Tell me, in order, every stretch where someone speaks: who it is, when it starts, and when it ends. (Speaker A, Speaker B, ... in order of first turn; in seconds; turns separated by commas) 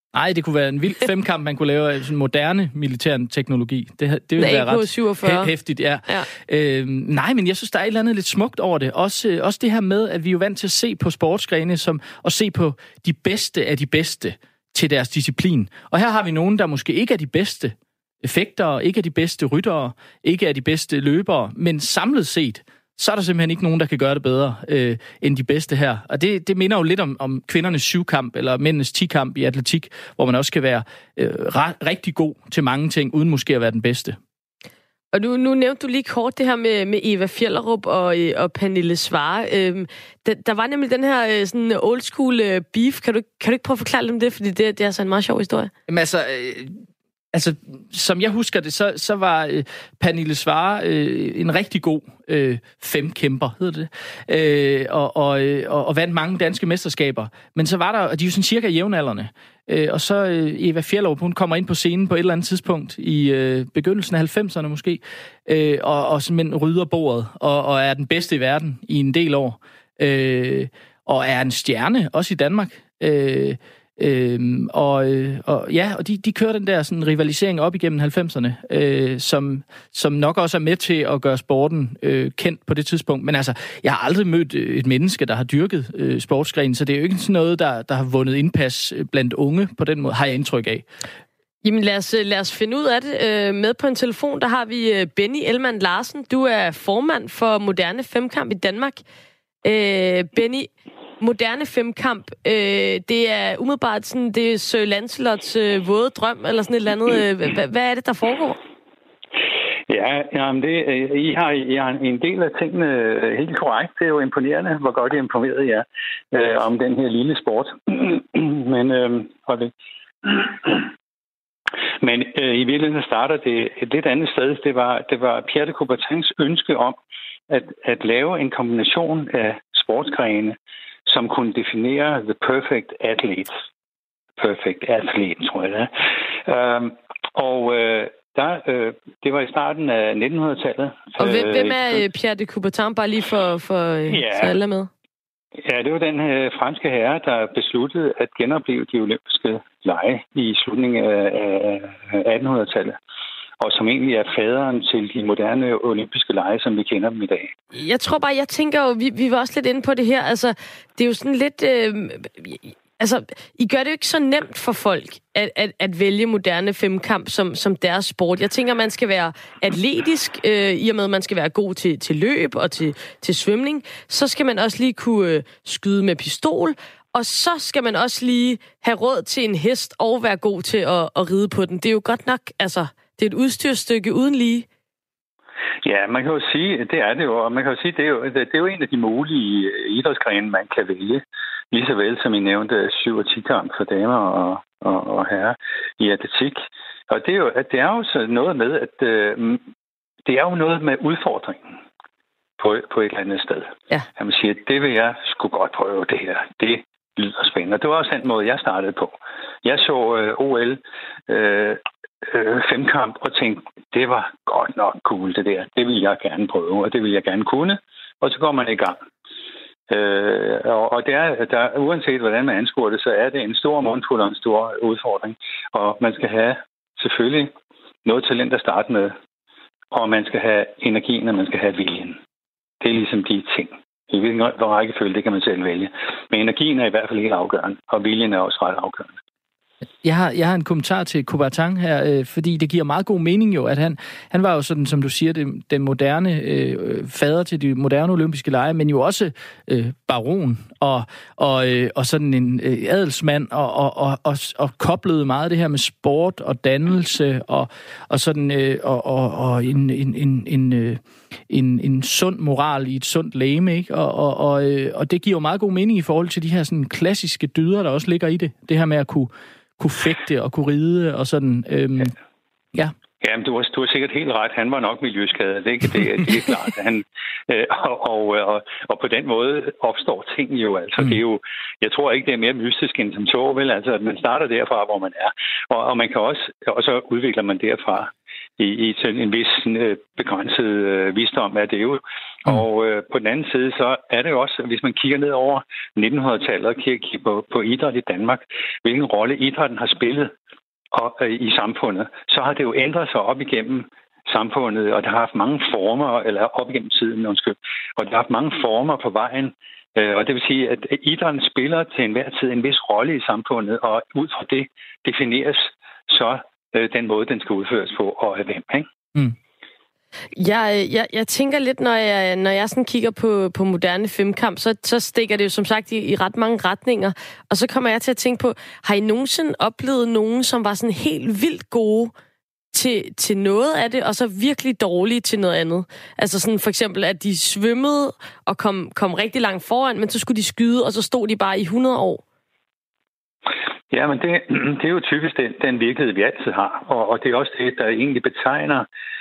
Speaker A: 0.1-34.2, Speaker B: 4.4-5.5, Speaker B: 35.1-45.7, Speaker A: 45.9-46.8, Speaker A: 47.3-90.8, Speaker B: 91.6-99.0, Speaker B: 99.6-108.6, Speaker C: 109.9-119.7, Speaker C: 120.2-120.9, Speaker C: 122.0-127.0, Speaker C: 127.5-133.6, Speaker C: 134.4-135.9, Speaker C: 136.4-142.0, Speaker B: 141.2-144.9, Speaker C: 144.1-144.6, Speaker C: 145.6-153.0, Speaker C: 153.6-157.5, Speaker B: 157.7-184.7, Speaker C: 185.8-199.6, Speaker C: 200.2-201.8, Speaker C: 202.6-219.1, Speaker C: 219.9-227.5, Speaker C: 228.0-229.2, Speaker C: 229.9-232.2, Speaker C: 232.8-239.2, Speaker A: 240.0-272.1, Speaker C: 273.2-300.3, Speaker C: 300.9-318.9, Speaker B: 320.3-332.1, Speaker B: 332.7-342.2, Speaker C: 343.9-348.9